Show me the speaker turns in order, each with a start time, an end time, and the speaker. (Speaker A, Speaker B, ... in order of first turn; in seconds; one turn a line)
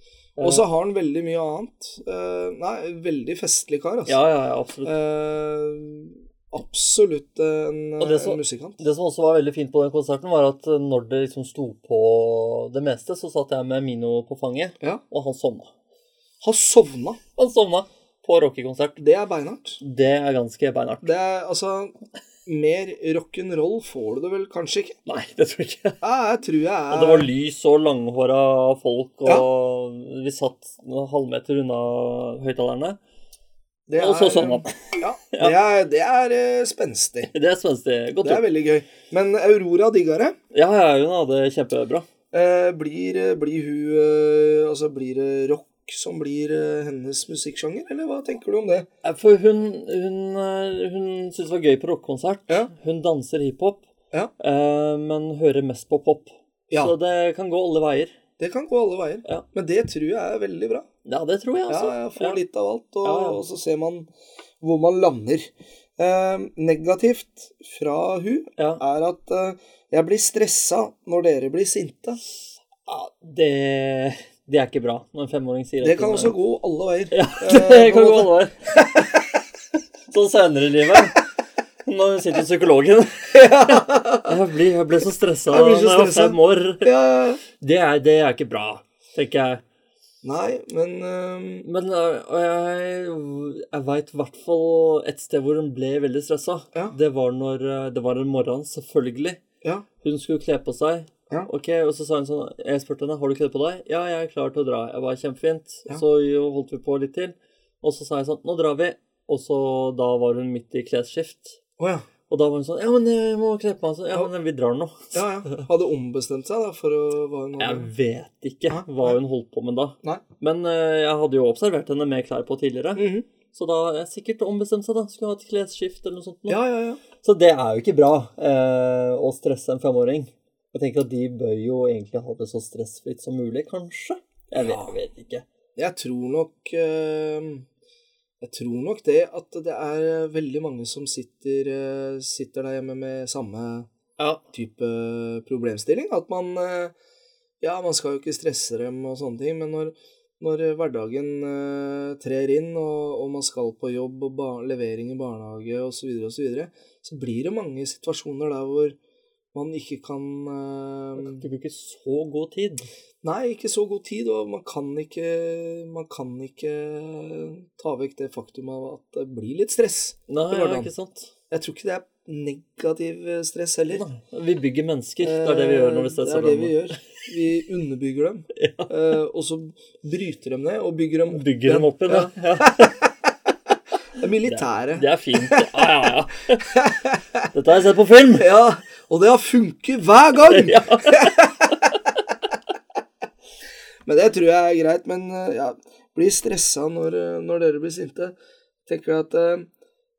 Speaker A: 0.4-0.6
Speaker B: 0.4-4.2
Speaker A: 4.1-4.9
Speaker B: 4.8-8.8
Speaker A: 8.0-15.7
Speaker B: 16.4-17.2
Speaker A: 17.4-19.0
Speaker B: 19.0-19.8
Speaker A: 19.8-21.1
Speaker B: 21.0-21.9
Speaker B: 22.5-25.0
Speaker A: 25.1-26.0
Speaker B: 26.0-27.3
Speaker A: 26.9-33.0
Speaker B: 33.9-37.3
Speaker A: 34.0-35.6
Speaker A: 37.3-38.5
Speaker B: 38.2-40.4
Speaker A: 40.5-42.1
Speaker B: 42.3-48.9
Speaker A: 49.0-53.9
Speaker A: 54.4-58.2
Speaker B: 58.4-60.9
Speaker A: 61.0-62.4
Speaker B: 61.7-64.1
Speaker A: 63.0-63.4
Speaker B: 64.6-72.2
Speaker A: 68.6-68.8
Speaker A: 72.9-76.3
Speaker B: 75.8-79.4
Speaker A: 77.1-78.6
Speaker A: 80.1-81.2
Speaker A: 81.8-86.9
Speaker B: 83.3-84.4
Speaker B: 85.5-87.4
Speaker A: 87.5-89.6
Speaker B: 90.2-91.7
Speaker A: 91.7-99.4
Speaker A: 100.0-111.6
Speaker B: 111.8-112.1
Speaker A: 112.3-115.7
Speaker B: 115.1-117.9
Speaker A: 117.6-126.6
Speaker B: 118.7-119.2
Speaker B: 123.0-123.3
Speaker B: 126.5-127.0
Speaker A: 127.2-135.4
Speaker B: 134.6-134.9
Speaker B: 135.8-137.7
Speaker B: 138.4-143.9
Speaker A: 144.2-144.4
Speaker B: 144.5-146.9
Speaker B: 147.6-159.0
Speaker B: 159.5-161.4
Speaker A: 161.2-162.9
Speaker B: 163.2-170.9
Speaker A: 170.3-171.3
Speaker B: 171.5-174.1
Speaker A: 173.9-177.0
Speaker B: 175.2-183.3
Speaker A: 178.6-178.9
Speaker A: 181.3-183.0
Speaker B: 184.2-185.9
Speaker A: 184.4-186.8
Speaker B: 186.6-187.5
Speaker A: 187.5-188.5
Speaker B: 188.4-192.0
Speaker A: 190.5-192.0
Speaker B: 194.1-198.3
Speaker B: 198.9-199.7